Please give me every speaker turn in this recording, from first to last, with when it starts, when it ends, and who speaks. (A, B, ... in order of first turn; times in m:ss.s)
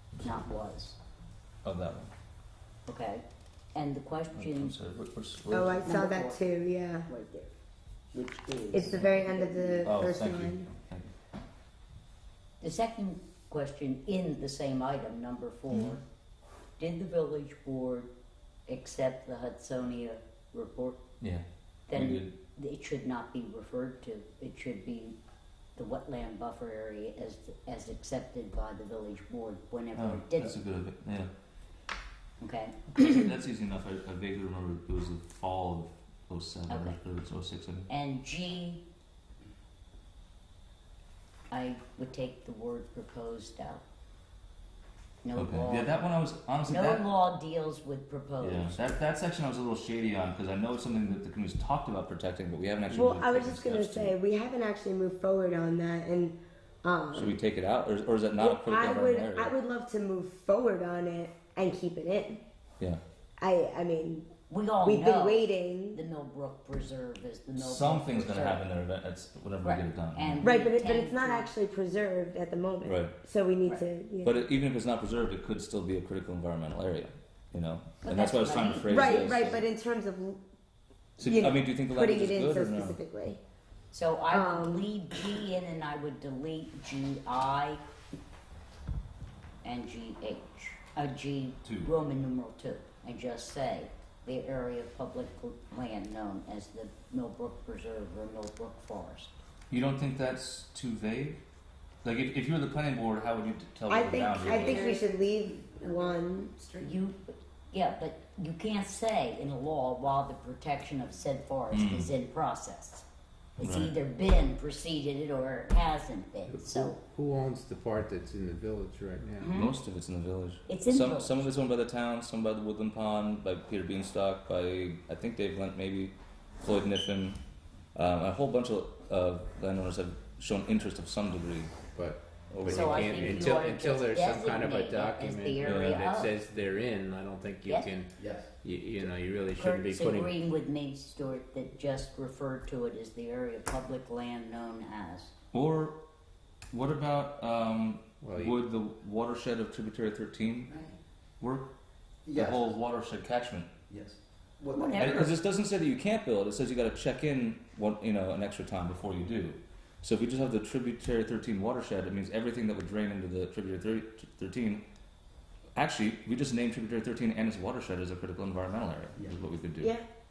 0:00.2-0:00.4 A
0:00.2-0:01.0 B
0:01.6-0:02.1 A
0:02.8-0:04.7 B
0:04.4-0:05.9 A
0:05.5-0:07.1 C
0:05.8-0:06.4 B
0:07.1-0:07.5 B
0:08.1-0:09.8 B
0:08.7-0:10.7 C
0:09.8-0:11.1 A
0:12.6-0:16.0 B
0:15.7-0:16.0 A
0:16.8-0:18.1 B
0:18.7-0:21.0 B
0:21.2-0:22.3 A
0:21.9-0:25.2 B
0:25.8-0:30.6 B
0:29.9-0:31.3 A
0:32.4-0:33.2 B
0:32.9-0:37.9 A
0:36.7-0:37.0 B
0:37.9-0:38.8 B
0:41.5-0:43.8 B
0:45.2-0:46.0 B
0:45.3-0:47.0 A
0:46.7-0:48.8 B
0:48.4-0:54.2 A
0:52.9-0:57.3 C
0:57.1-0:59.5 A
0:58.4-1:02.4 C
1:03.4-1:04.3 C
1:04.5-1:08.6 B
1:04.8-1:06.0 C
1:07.6-1:10.5 A
1:09.6-1:11.5 B
1:10.4-1:14.4 C
1:12.8-1:13.1 A
1:14.2-1:19.6 A
1:18.0-1:19.3 B
1:18.9-1:20.4 C
1:21.2-1:23.0 A
1:21.2-1:23.4 C
1:23.9-1:27.8 B
1:24.3-1:24.9 C
1:29.6-1:39.3 B
1:31.6-1:31.9 A
1:39.7-1:41.4 A
1:42.0-1:45.0 A
1:43.9-1:46.9 C
1:44.5-1:45.1 B
1:46.7-1:53.0 B
1:51.7-1:52.1 A
1:53.6-1:57.0 B
1:53.6-1:53.9 A
1:56.5-1:59.5 D
1:59.4-1:59.8 B
1:59.5-2:07.4 A
2:00.7-2:01.5 B
2:07.9-2:11.8 A
2:11.9-2:20.3 D
2:12.6-2:13.4 A
2:12.6-2:16.3 B
2:15.6-2:16.0 A
2:18.2-2:18.5 E
2:19.6-2:25.3 B
2:25.5-2:26.0 A
2:26.7-2:30.8 A
2:28.2-2:28.6 D
2:31.4-2:31.7 A
2:32.2-2:32.7 E
2:32.3-2:33.7 A
2:33.9-2:35.3 E
2:34.7-2:35.3 B
2:34.9-2:44.8 A
2:45.7-2:50.0 A
2:49.1-2:49.4 E